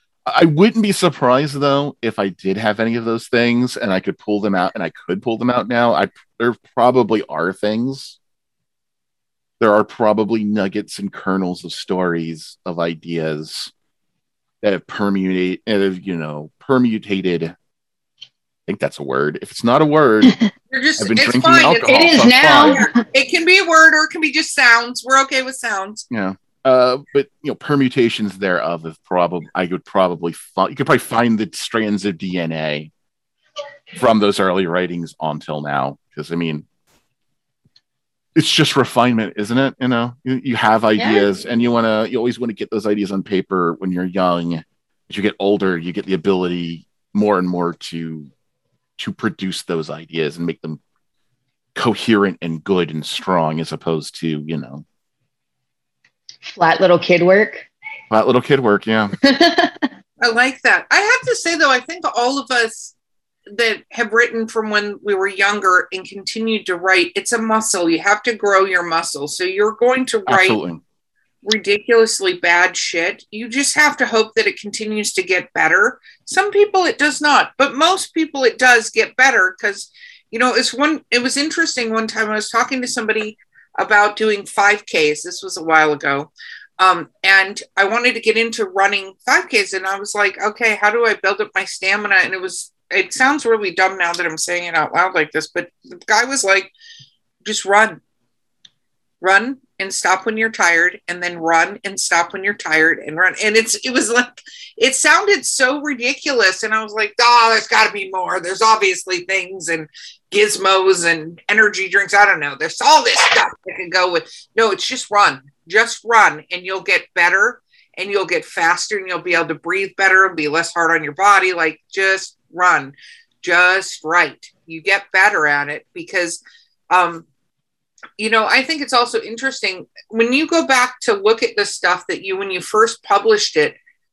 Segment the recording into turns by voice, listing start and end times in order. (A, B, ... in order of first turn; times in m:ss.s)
0:00.3-0:08.2 A
0:09.6-0:13.7 A
0:14.6-0:17.5 A
0:18.7-0:20.3 A
0:20.7-0:21.8 B
0:21.0-0:22.8 A
0:21.9-0:23.0 C
0:22.6-0:26.0 B
0:26.1-0:32.9 A
0:34.0-0:36.6 A
0:38.3-0:48.3 A
0:41.0-0:41.2 C
0:49.0-0:50.8 A
0:51.7-0:54.8 A
0:56.4-0:57.7 C
0:58.1-0:59.2 A
0:59.2-0:59.8 C
1:00.2-1:02.9 B
1:03.5-1:10.6 B
1:10.2-1:10.8 A
1:11.4-1:36.7 B
1:37.4-1:38.0 B
1:39.2-2:07.3 B
2:08.2-2:13.8 B